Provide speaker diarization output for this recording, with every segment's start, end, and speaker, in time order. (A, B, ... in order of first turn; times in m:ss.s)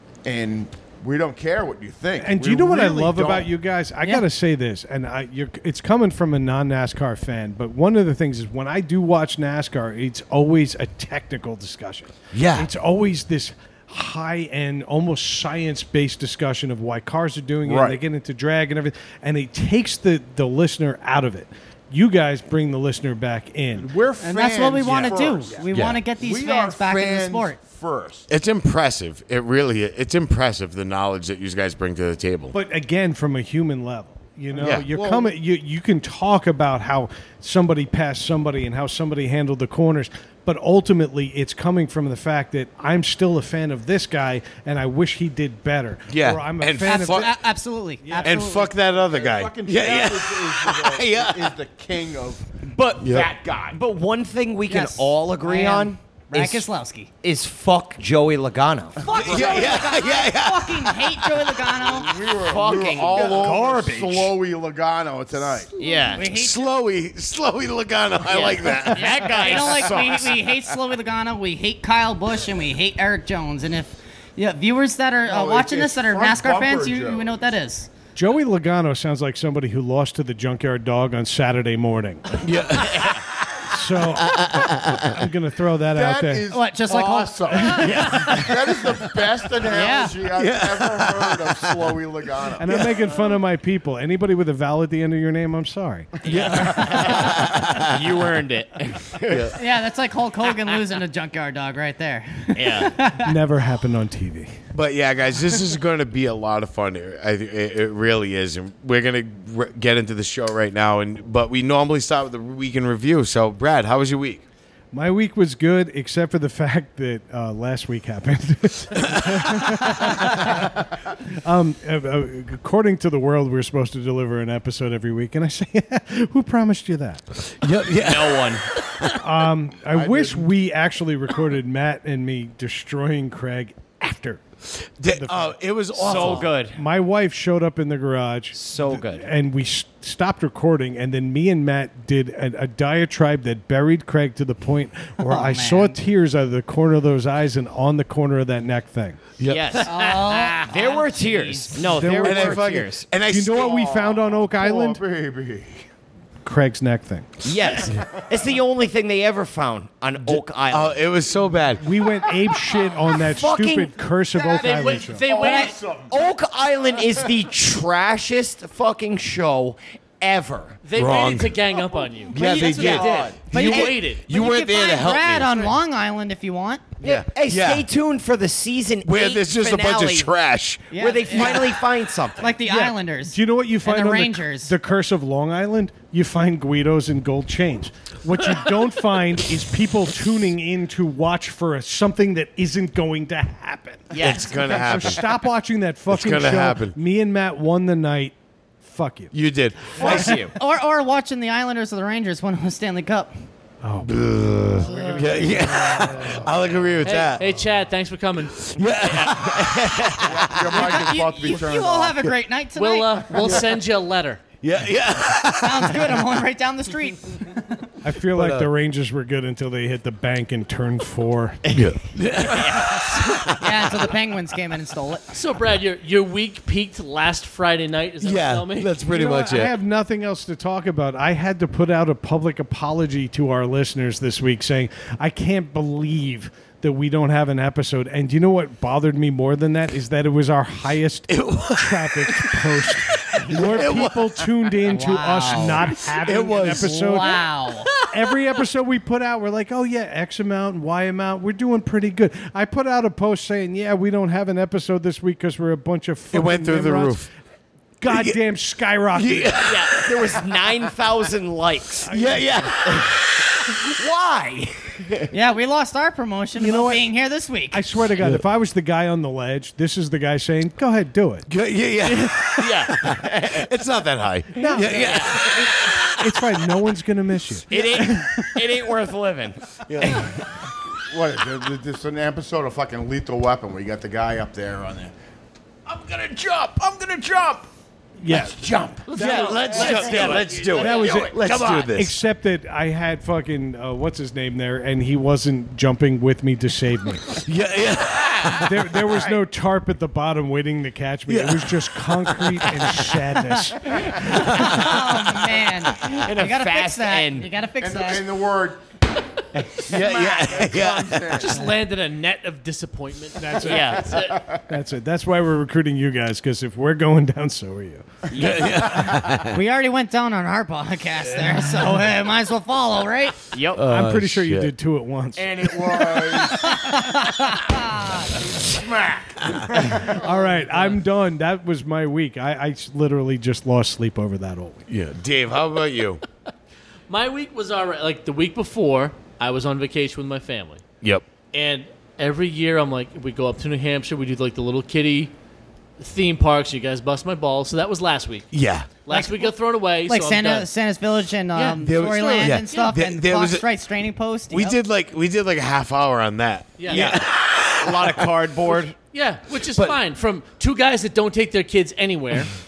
0:00.2-0:03.5 A
0:02.2-0:24.0 B
0:12.3-0:12.7 C
0:17.6-0:18.0 A
0:23.8-0:28.3 A
0:24.2-0:27.6 D
0:24.9-0:25.4 B
0:25.7-0:26.0 C
0:28.3-0:32.5 C
0:32.5-0:47.4 B
0:34.5-0:35.4 A
0:34.6-0:34.9 C
0:46.1-0:47.3 C
0:46.8-0:48.6 D
0:48.0-0:48.5 B
0:48.2-0:51.6 C
0:48.5-0:53.8 A
0:52.6-0:53.2 E
0:53.0-0:53.3 C
0:53.7-0:56.7 E
0:54.7-0:57.1 D
0:57.2-0:59.0 E
0:59.0-1:02.2 D
0:59.0-0:59.8 A
0:59.2-1:01.7 C
1:01.8-1:05.7 A
1:02.3-1:04.3 E
1:03.4-1:03.8 B
1:05.8-1:06.3 E
1:05.8-1:06.7 D
1:06.2-1:10.2 C
1:08.3-1:10.2 E
1:08.9-1:17.9 D
1:15.3-1:17.3 A
1:18.2-1:22.4 B
1:22.4-1:23.3 C
1:23.7-1:26.5 B
1:24.2-1:25.2 C
1:25.9-1:33.3 A
1:26.5-1:27.9 D
1:27.7-1:28.3 B
1:27.8-1:28.4 E
1:29.7-1:30.2 D
1:30.4-1:31.9 C
1:32.6-1:37.0 B
1:32.6-1:33.1 C
1:36.3-1:39.6 E
1:36.3-1:38.1 C
1:39.3-1:39.6 C
1:39.6-1:43.4 D
1:42.6-1:43.0 E
1:43.1-1:44.5 B
1:44.7-1:54.4 C
1:54.9-2:07.2 B
1:59.0-2:00.2 C
2:07.4-2:09.1 C
2:07.9-2:08.7 E
2:09.2-2:14.4 B
2:09.8-2:10.5 A
2:14.8-2:16.5 C
2:15.1-2:29.4 B
2:16.0-2:16.8 E
2:18.5-2:19.3 E
2:25.3-2:26.0 D
2:29.4-2:29.9 C
2:29.4-2:33.1 E
2:29.8-2:31.7 D
2:31.8-2:35.0 B
2:32.2-2:33.8 C
2:33.5-2:35.9 A
2:36.4-2:37.4 B
2:37.4-2:41.0 E
2:37.9-2:38.2 A
2:40.3-2:41.8 C
2:41.8-2:45.2 B
2:43.1-2:43.9 E
2:44.4-2:45.8 D
2:44.6-2:45.8 F
2:44.7-2:46.2 A
2:46.0-2:50.8 E
2:50.8-2:54.2 F
2:50.9-2:51.6 C
2:52.3-2:55.7 C
2:52.3-2:56.8 D
2:53.0-2:53.4 A
2:53.0-2:53.3 E
2:57.0-2:57.8 C
2:57.0-3:00.3 E
2:59.0-3:01.5 C
3:00.9-3:01.8 D
3:00.9-3:02.6 E
3:02.4-3:04.7 D
3:02.6-3:19.3 B
3:14.1-3:15.2 E
3:14.2-3:15.3 C
3:16.1-3:17.0 C
3:19.3-3:20.3 C
3:19.9-3:20.5 E
3:20.0-3:23.3 D
3:23.8-3:24.1 B
3:24.0-3:27.5 C
3:24.8-3:26.7 B
3:27.0-3:29.3 F
3:28.6-3:30.5 C
3:29.3-3:30.1 E
3:30.2-3:32.2 A
3:30.7-3:33.6 D
3:32.8-3:34.4 F
3:34.6-3:36.2 C
3:35.6-3:37.7 D
3:38.0-3:41.6 B
3:38.3-3:38.7 C
3:41.7-3:44.1 C
3:42.6-3:43.2 E
3:43.6-3:45.4 D
3:45.4-3:49.0 F
3:48.2-3:49.7 C
3:49.0-4:07.5 B
4:01.3-4:04.5 C
4:04.8-4:07.9 D
4:05.5-4:07.1 C
4:08.1-4:17.3 B
4:16.3-4:17.3 C
4:18.0-4:19.7 B
4:18.1-4:18.4 C
4:19.2-4:20.4 C
4:19.6-4:22.2 E
4:22.1-4:22.7 B
4:22.1-4:23.8 C
4:22.9-4:23.1 E
4:24.0-4:25.3 E
4:25.3-4:27.8 D
4:26.6-4:27.1 B
4:27.7-4:31.5 B
4:31.5-4:36.6 C
4:32.0-4:33.7 E
4:34.6-4:38.6 B
4:34.7-4:35.6 E
4:37.7-4:40.4 E
4:39.9-4:40.3 C
4:41.0-4:45.1 A
4:45.9-4:47.7 A
4:48.2-4:48.6 B
4:48.2-4:51.7 A
4:49.2-4:50.7 F
4:49.2-4:52.2 C
4:49.2-4:49.9 B
4:49.5-4:50.6 E
4:50.6-4:57.4 B
4:57.4-4:59.0 C
4:58.6-5:04.9 B
5:01.3-5:03.1 C
5:03.5-5:08.2 D
5:04.3-5:05.0 C
5:06.0-5:07.5 E
5:07.8-5:08.8 A
5:09.6-5:11.7 A
5:09.9-5:11.5 C
5:11.4-5:14.4 F
5:13.4-5:18.1 B
5:13.6-5:14.2 E
5:14.2-5:14.6 A
5:18.3-5:18.9 E
5:18.4-5:19.6 C
5:18.4-5:19.2 A
5:19.4-5:23.4 D
5:23.5-5:23.9 E
5:23.8-5:24.7 C
5:23.8-5:26.7 B
5:25.4-5:27.2 A
5:26.5-5:28.3 D
5:28.3-5:30.5 A
5:29.4-5:29.7 C
5:29.8-5:34.8 B
5:30.6-5:31.0 F
5:34.9-5:36.2 C
5:37.1-5:40.8 F
5:41.5-5:45.3 F
5:46.0-5:48.5 F
5:48.5-5:48.9 C
5:49.0-5:50.7 F
5:49.1-5:49.5 D
5:50.1-5:54.8 D
5:51.5-5:53.0 F
5:51.8-5:53.7 C
5:54.5-5:58.4 C
5:56.8-5:57.2 F
5:56.9-5:59.0 E
5:59.1-6:02.5 F
5:59.6-6:00.0 C